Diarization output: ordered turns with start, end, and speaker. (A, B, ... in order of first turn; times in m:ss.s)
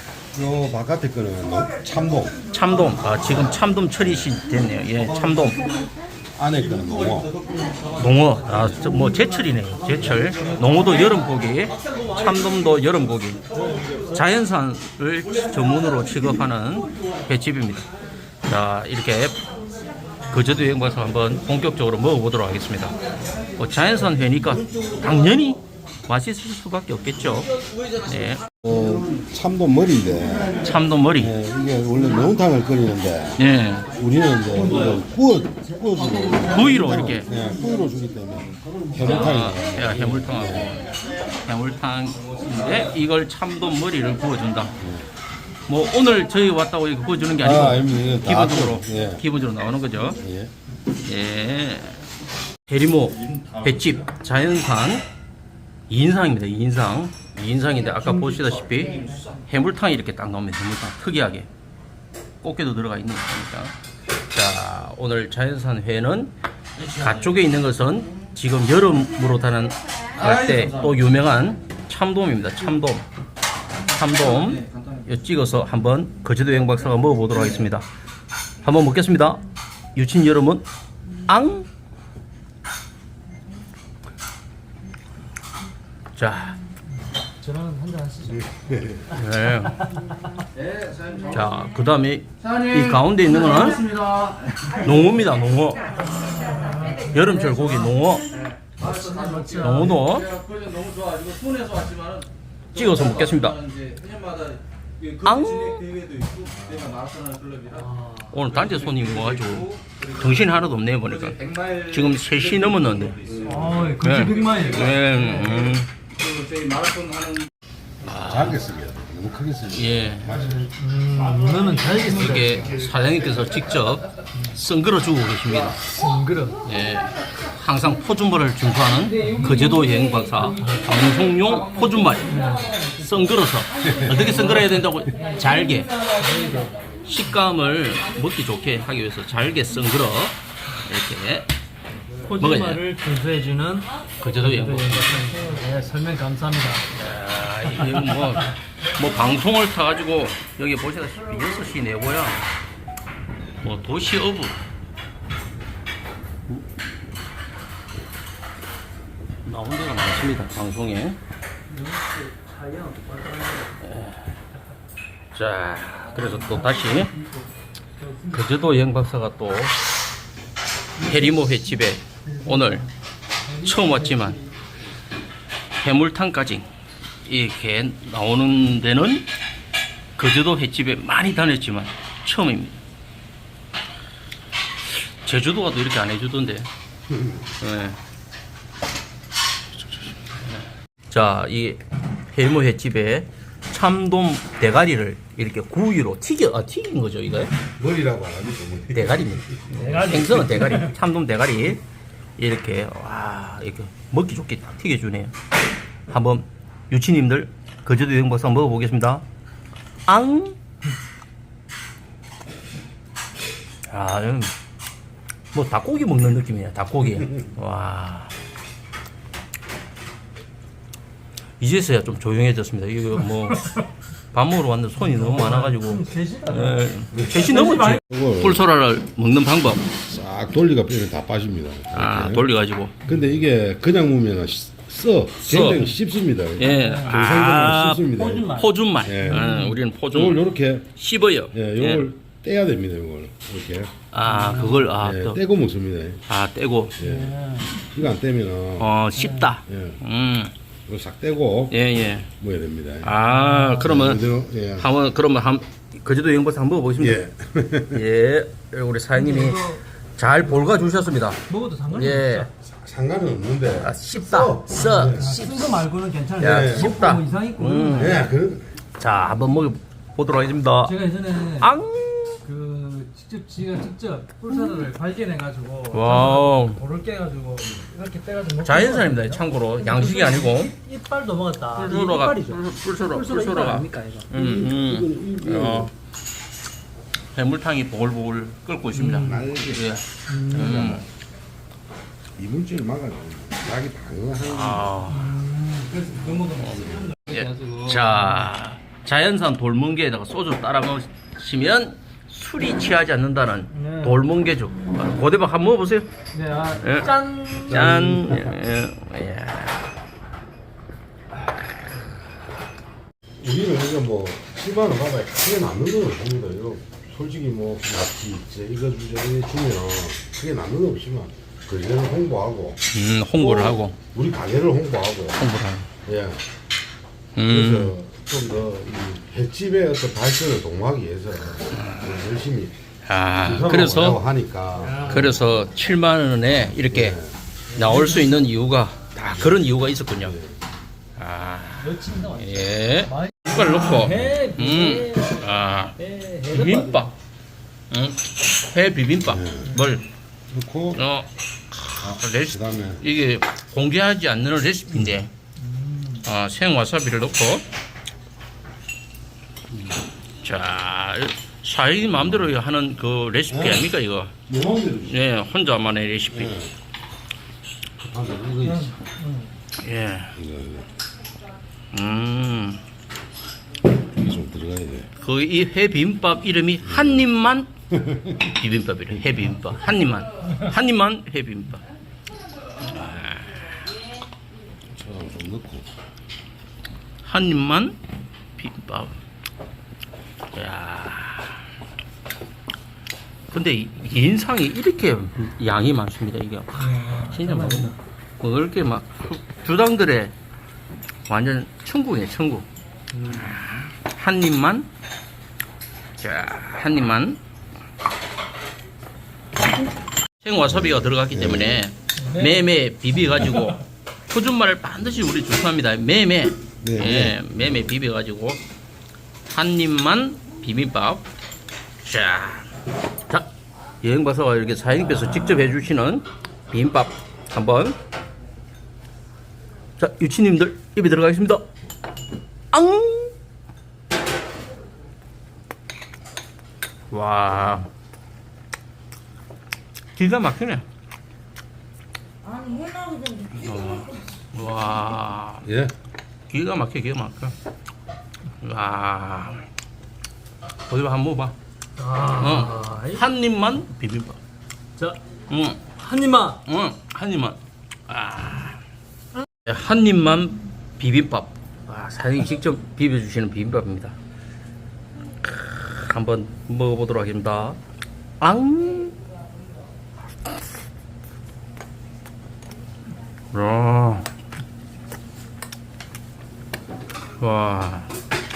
0:00.3-0:02.4 A
0:02.5-0:05.7 B
0:04.0-0:04.4 A
0:06.4-0:07.3 A
0:08.0-0:13.4 B
0:14.1-0:17.9 B
0:18.5-0:19.4 B
0:20.3-0:22.9 B
0:23.6-0:28.4 B
0:28.6-0:30.6 A
0:30.6-0:31.4 B
0:31.2-0:40.8 A
0:33.4-0:33.9 B
0:36.4-0:37.3 B
0:39.0-0:40.9 B
0:41.4-0:44.8 B
0:44.8-0:45.1 A
0:45.7-0:50.2 B
0:47.4-0:49.2 A
0:50.2-0:50.5 A
0:51.0-0:52.0 B
0:52.7-0:55.0 B
0:55.9-1:01.5 B
1:02.4-1:03.8 B
1:04.3-1:13.0 B
1:13.9-1:17.9 B
1:18.6-1:19.4 B
1:20.0-1:20.7 B
1:21.3-1:21.7 B
1:26.2-1:26.6 B
1:27.4-1:29.0 C
1:28.3-1:29.1 A
1:29.1-1:29.8 B
1:29.5-1:30.4 C
1:30.6-1:31.4 D
1:31.3-1:33.8 B
1:33.8-1:34.6 D
1:34.8-1:35.9 B
1:36.2-1:38.0 C
1:37.0-1:38.3 B
1:38.8-1:40.1 C
1:39.1-1:39.5 D
1:39.6-1:40.3 B
1:40.2-1:42.3 D
1:42.7-1:43.6 B
1:43.6-1:45.2 D
1:45.2-1:45.9 B
1:45.8-1:47.8 D
1:46.6-1:47.0 A
1:47.7-1:48.4 C
1:48.2-1:53.4 B
1:51.4-1:51.8 D
1:53.3-1:53.6 D
1:53.4-1:55.7 C
1:54.0-1:55.9 B
1:56.2-1:57.5 D
1:58.0-1:58.6 B
1:58.1-2:00.6 A
1:59.7-2:00.3 B
2:00.3-2:02.7 C
2:01.9-2:05.8 B
2:05.8-2:06.6 C
2:06.6-2:15.9 B
2:09.1-2:09.9 C
2:12.2-2:12.9 C
2:16.0-2:16.8 C
2:17.0-2:21.5 B
2:22.2-2:26.8 C
2:22.4-2:22.8 B
2:24.2-2:25.3 B
2:26.9-2:32.4 B
2:27.8-2:28.3 C
2:33.6-2:34.6 B
2:39.4-2:41.2 B
2:41.7-2:43.7 C
2:43.8-2:44.2 B
2:45.3-2:47.1 B
2:46.1-2:47.4 C
2:48.0-2:48.5 C
2:48.3-2:49.8 B
2:51.0-2:52.9 B
2:51.0-2:51.6 C
2:52.3-2:52.9 C
2:53.5-2:54.5 C
2:53.6-2:54.4 B
2:55.8-2:56.7 B
2:57.2-2:59.3 B
3:00.2-3:02.8 B
3:04.9-3:06.7 B
3:07.1-3:07.4 A
3:07.6-3:08.0 B
3:11.1-3:11.8 B
3:12.3-3:17.5 B
3:17.8-3:20.3 A
3:18.9-3:21.8 B
3:19.8-3:20.9 C
3:22.4-3:25.3 B
3:26.1-3:29.2 B
3:30.1-3:30.6 B
3:33.9-3:34.5 B
3:35.5-3:38.3 B
3:41.6-3:43.7 B
3:44.3-3:49.9 B
3:45.0-3:48.0 C
3:47.1-3:47.4 A
3:48.1-3:48.6 A
3:50.0-3:52.5 A
3:51.9-3:53.0 B
3:53.0-3:59.6 A
3:55.4-3:56.0 B
3:56.6-4:00.4 B
3:56.7-3:57.2 C
3:58.0-3:58.7 C
3:59.3-3:59.8 C
4:00.1-4:00.9 A
4:01.0-4:02.1 B
4:01.5-4:03.9 A
4:04.1-4:05.4 B
4:04.3-4:04.9 C
4:05.0-4:06.2 A
4:06.3-4:07.0 B
4:07.0-4:08.9 A
4:07.0-4:07.8 C
4:08.8-4:10.5 B
4:09.2-4:09.5 C
4:09.6-4:10.0 A
4:10.9-4:11.8 A
4:11.7-4:12.3 B
4:12.4-4:13.2 A
4:13.0-4:14.2 B
4:13.3-4:13.8 C
4:13.8-4:14.9 A
4:14.8-4:17.2 B
4:17.0-4:18.0 A
4:17.9-4:21.4 B
4:19.1-4:19.8 C
4:21.5-4:22.5 C
4:21.9-4:22.5 B
4:22.7-4:25.4 A
4:23.8-4:25.3 B
4:24.9-4:28.3 C
4:26.4-4:26.9 A
4:26.4-4:28.2 B
4:27.9-4:28.8 A
4:29.0-4:31.0 B
4:30.8-4:31.8 C
4:31.6-4:32.4 B
4:32.4-4:44.3 C
4:34.5-4:34.8 B
4:35.9-4:36.8 B
4:38.6-4:40.8 B
4:41.8-4:45.9 B
4:44.3-4:45.9 A
4:47.3-4:51.0 B
4:49.0-4:49.3 C
4:49.2-4:49.9 A
4:50.3-4:51.0 C
4:50.5-4:51.0 A
4:52.4-4:54.9 A
4:54.4-4:55.4 B
4:55.1-4:58.2 C
4:56.5-5:06.1 B
5:03.7-5:04.2 C
5:06.3-5:07.7 C
5:06.7-5:09.8 B
5:07.7-5:08.6 A
5:13.4-5:22.8 A
5:22.9-5:24.0 B
5:23.4-5:25.4 A
5:25.4-5:25.9 B
5:26.0-5:26.4 A
5:27.4-5:28.0 B
5:27.5-5:32.8 A
5:31.7-5:32.1 B
5:33.0-5:34.2 B
5:33.4-5:35.4 A
5:34.8-5:35.3 C
5:35.1-5:37.2 B
5:36.9-5:37.3 A
5:37.7-5:38.4 C
5:37.7-5:40.4 B
5:39.4-5:40.6 A
5:41.2-5:47.1 B
5:41.7-5:45.4 C
5:44.0-5:44.4 A
5:46.0-5:47.1 C
5:47.9-5:50.1 B
5:49.3-5:49.8 A
5:50.5-5:51.0 A
5:51.0-5:55.3 B
5:52.0-5:53.0 A
5:55.6-5:56.2 C
5:56.2-5:57.6 B
6:00.4-6:04.3 B
6:03.5-6:03.8 A
6:04.5-6:05.2 A
6:05.0-6:06.6 B
6:06.4-6:06.7 A
6:08.0-6:09.0 A
6:08.9-6:09.5 C
6:09.8-6:10.4 B
6:10.4-6:10.9 A
6:11.9-6:12.8 B
6:14.2-6:15.1 A
6:15.2-6:17.7 B
6:16.8-6:17.3 A
6:17.9-6:18.6 A
6:18.5-6:21.8 B
6:22.8-6:23.8 B
6:24.9-6:25.9 A
6:27.2-6:28.0 B
6:28.6-6:29.1 B
6:30.5-6:31.6 B
6:33.5-6:40.3 B
6:36.8-6:38.0 C
6:41.3-6:42.7 B
6:43.1-6:43.5 C
6:43.2-6:44.9 B
6:46.2-6:47.4 B
6:50.4-6:58.6 B
6:50.7-6:51.8 A
6:52.2-6:52.6 C
6:56.8-6:57.4 A
6:59.5-7:01.3 B
7:02.0-7:02.7 B
7:04.0-7:08.0 B
7:10.0-7:11.7 B
7:12.7-7:13.3 B
7:17.1-7:17.9 B
7:20.2-7:20.8 B
7:23.4-7:25.7 B
7:25.6-7:25.9 A
7:26.5-7:27.6 B
7:28.6-7:29.7 B
7:30.9-7:31.6 B
7:32.0-7:33.2 C
7:32.3-7:34.4 B
7:35.5-7:35.9 B
7:35.9-7:36.6 C
7:36.6-7:38.8 B
7:39.6-7:44.2 B
7:45.4-7:47.8 B
7:48.4-7:49.2 B
7:53.5-7:54.3 B
7:57.4-7:58.1 B